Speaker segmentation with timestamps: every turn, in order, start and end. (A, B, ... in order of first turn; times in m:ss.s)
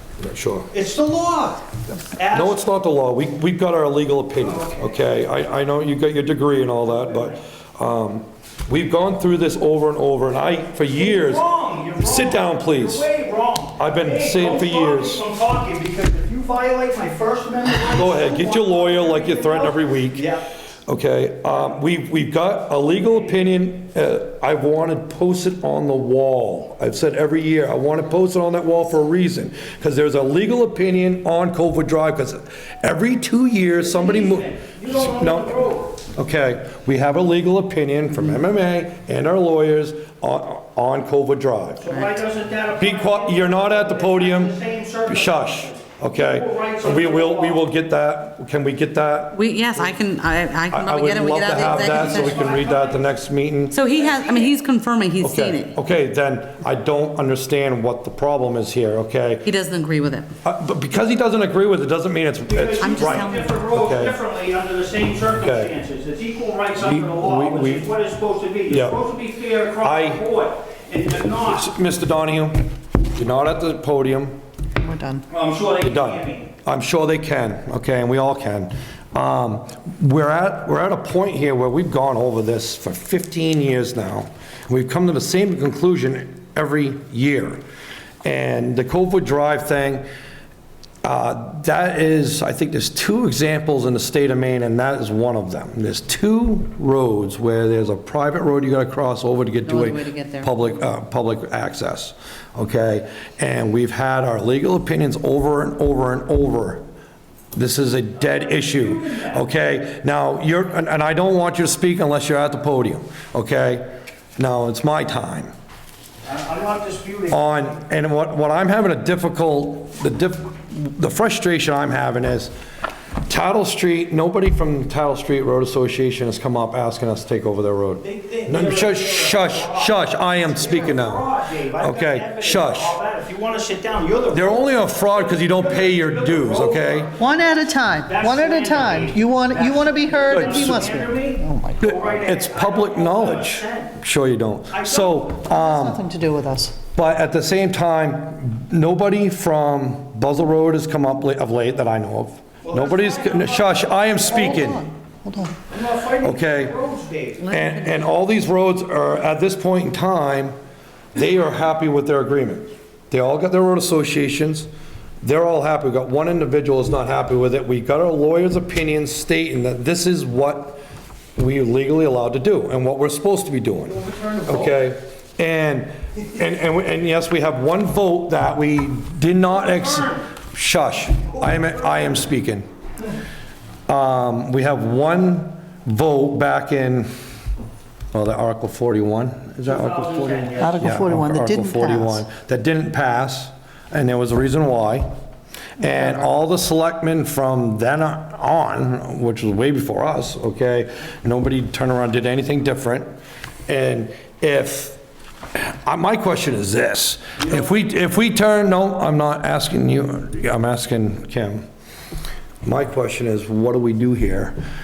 0:00.2-0:00.7 A
0:00.7-0:02.6 B
0:02.3-0:11.4 A
0:04.4-0:05.0 B
0:06.9-0:07.4 B
0:10.8-0:20.5 B
0:12.0-0:13.1 A
0:13.8-0:15.2 A
0:17.8-0:20.3 A
0:20.8-0:41.8 A
0:33.7-0:36.0 B
0:41.8-0:47.6 B
0:42.8-0:44.5 A
0:45.1-0:50.0 A
0:49.3-0:52.5 C
0:50.7-0:53.8 A
0:51.6-0:53.1 B
0:53.7-0:55.7 C
0:53.9-0:54.6 B
0:55.2-0:59.5 A
0:59.4-1:00.3 C
1:00.4-1:04.2 A
1:02.5-1:11.7 B
1:02.8-1:03.5 C
1:05.4-1:05.7 A
1:06.8-1:07.9 A
1:08.7-1:09.0 A
1:09.8-1:10.2 A
1:11.3-1:12.6 A
1:13.1-1:14.4 A
1:14.8-1:15.2 D
1:15.3-1:16.5 B
1:15.8-1:27.6 A
1:28.2-1:30.0 A
1:31.0-1:46.8 A
1:39.6-1:40.5 C
1:47.5-1:53.8 A
1:48.1-1:49.5 B
1:54.4-1:55.5 A
1:56.2-1:57.7 B
1:57.3-2:02.5 A
2:03.3-2:11.3 A
2:08.0-2:23.9 B
2:11.8-2:13.0 A
2:14.3-2:17.1 A
2:17.2-2:21.8 D
2:20.3-2:20.8 A
2:21.8-2:26.0 A
2:24.7-2:25.3 B
2:25.5-2:26.8 D
2:26.9-2:34.9 A
2:32.6-2:34.8 B
2:34.3-2:35.5 D
2:35.7-2:37.5 B
2:36.2-2:36.7 A
2:37.4-2:38.1 C
2:37.5-2:40.5 A
2:41.1-2:44.7 A
2:45.2-2:50.8 A
2:51.4-3:02.6 A
2:53.8-2:54.9 B
2:59.5-3:00.2 B
3:01.3-3:02.1 B
3:03.9-3:07.1 A
3:08.1-3:15.1 A
3:09.6-3:11.1 B
3:10.6-3:12.2 D
3:15.8-3:23.0 A
3:23.7-3:25.0 A
3:25.6-3:31.6 A
3:32.6-3:34.5 A